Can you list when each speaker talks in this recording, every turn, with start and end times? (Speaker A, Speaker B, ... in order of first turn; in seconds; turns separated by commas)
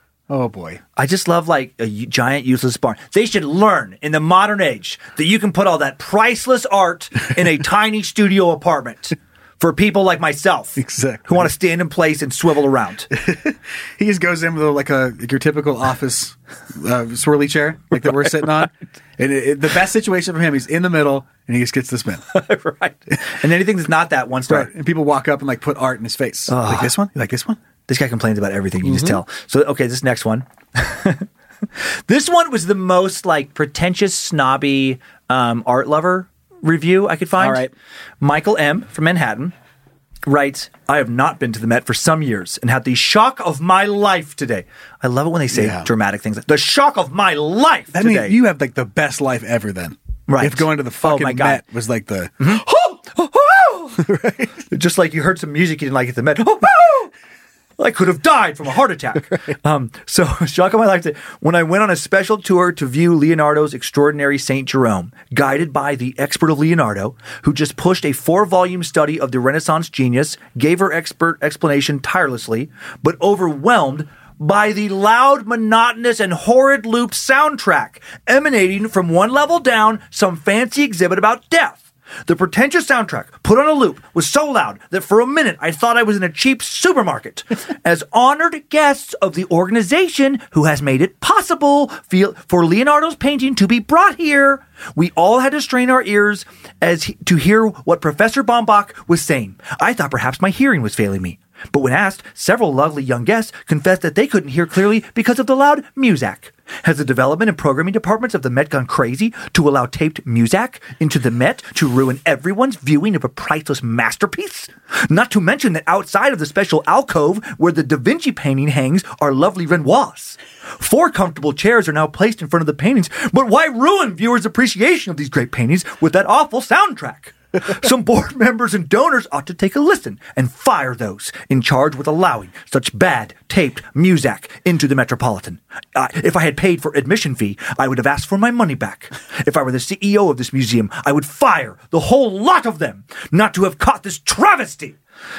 Speaker A: 0.3-0.8, Speaker B: 1.0-13.1, Speaker A: 10.8-11.5, Speaker A: 13.1-22.2, Speaker B: 22.3-24.7, Speaker A: 24.5-27.6, Speaker B: 26.5-26.9, Speaker B: 27.9-31.3, Speaker A: 28.8-29.2, Speaker B: 32.1-37.7, Speaker A: 37.4-37.7, Speaker B: 38.2-39.5, Speaker B: 40.3-48.4, Speaker A: 45.5-45.9, Speaker A: 47.9-53.0, Speaker B: 50.3-51.6, Speaker B: 52.4-54.0, Speaker A: 54.0-54.7, Speaker B: 54.7-57.1, Speaker B: 57.8-145.0